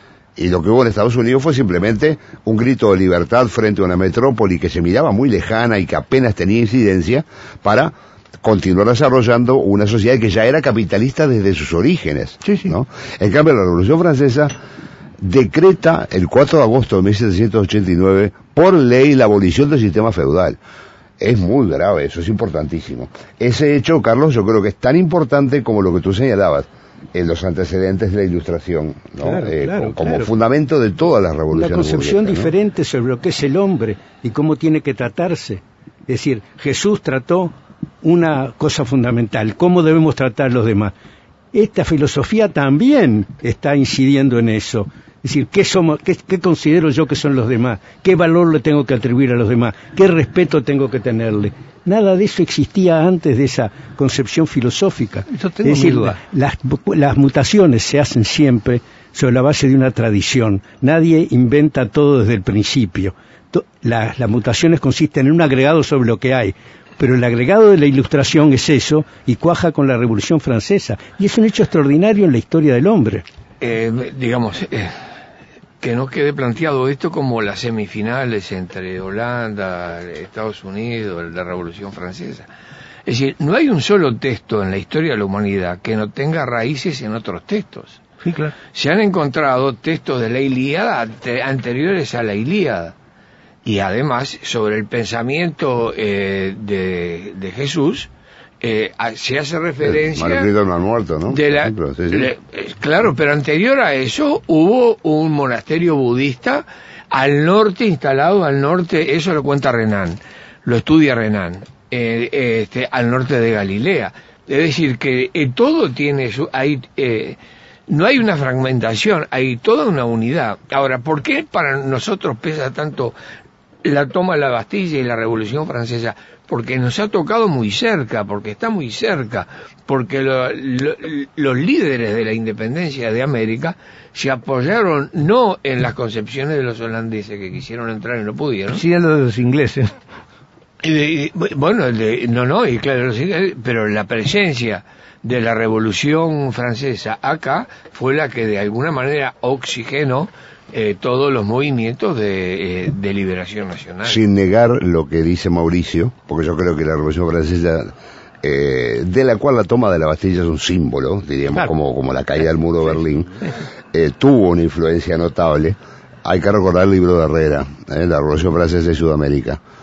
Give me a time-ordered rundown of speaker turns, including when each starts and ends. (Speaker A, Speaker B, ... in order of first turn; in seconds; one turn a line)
Speaker A: 0.4-14.5
Speaker B: 12.4-12.8
Speaker A: 15.2-20.6
Speaker A: 21.2-32.5
Speaker C: 29.2-30.3
Speaker C: 31.5-40.9
Speaker C: 41.5-73.2
Speaker B: 55.3-56.2
Speaker D: 73.6-74.9
Speaker D: 75.8-82.5
Speaker D: 83.1-93.0
Speaker B: 88.2-88.5
Speaker D: 93.6-98.1
Speaker D: 98.6-100.5
Speaker A: 99.8-102.3
Speaker D: 101.3-123.2
Speaker D: 123.8-138.8
Speaker B: 138.7-139.9
Speaker D: 140.8-154.2
Speaker A: 154.1-157.9
Speaker A: 158.4-169.6